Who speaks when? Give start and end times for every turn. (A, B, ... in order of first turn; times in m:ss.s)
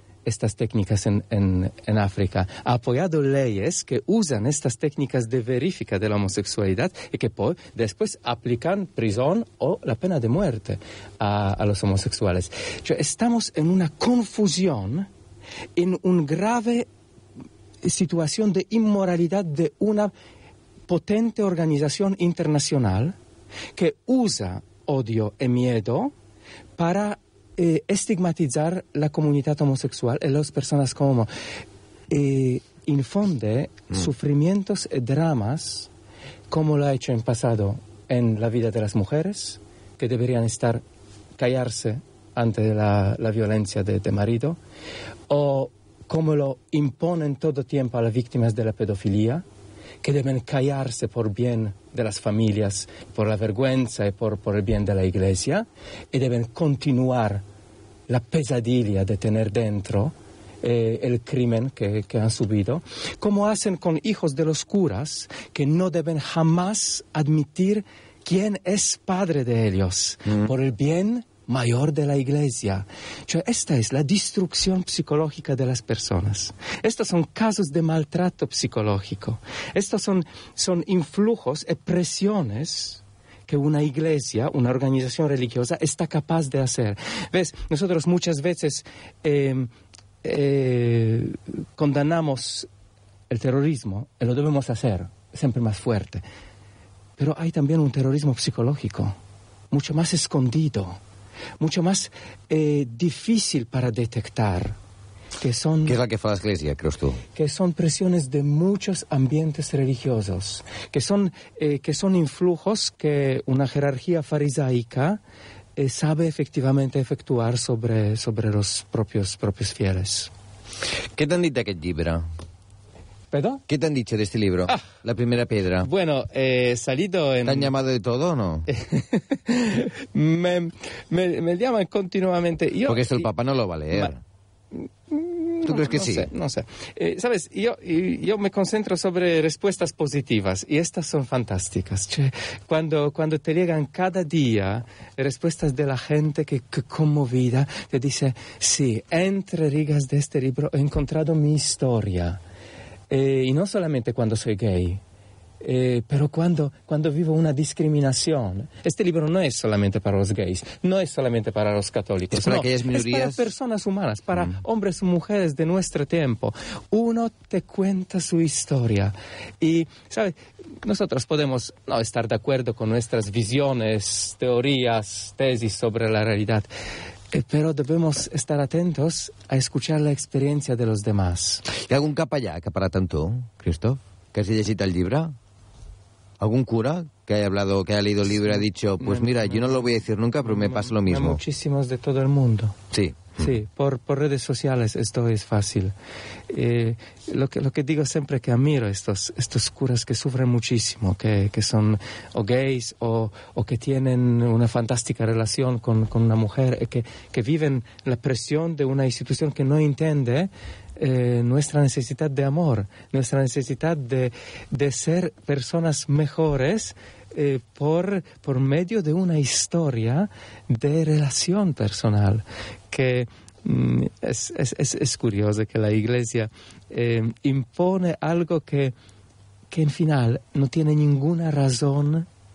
0:00.3-0:15.1 A
0:15.8-0:16.9 A
0:17.8-0:20.1 A
0:20.9-0:23.2 A
0:23.8-0:26.1 A
0:26.8-0:31.3 A
0:32.1-0:35.9 A
0:36.5-0:40.8 A
0:41.4-0:44.6 A
0:45.3-0:49.4 A
0:50.0-0:57.4 A
0:58.1-1:29.7 A
1:30.2-1:32.7 A
1:33.3-1:36.2 A
1:37.2-1:39.2 A
1:39.7-1:41.0 A
1:41.6-1:44.8 A
1:45.4-1:46.0 A
1:45.9-1:47.2 B
1:47.3-1:55.2 A
1:55.8-2:00.3 A
2:01.2-2:02.2 B
2:03.3-2:03.6 A
2:03.7-2:05.9 B
2:05.8-2:07.7 A
2:07.4-2:08.7 B
2:08.7-2:13.3 A
2:12.9-2:14.2 B
2:14.7-2:32.4 A
2:15.7-2:16.3 B
2:33.1-2:35.0 A
2:35.6-2:56.7 A
2:42.3-2:43.5 B
2:57.3-3:01.7 A
3:01.8-3:05.3 B
3:06.4-3:11.4 B
3:08.4-3:12.8 A
3:12.9-3:13.5 B
3:13.4-3:16.0 A
3:16.5-3:48.9 A
3:49.7-3:52.3 A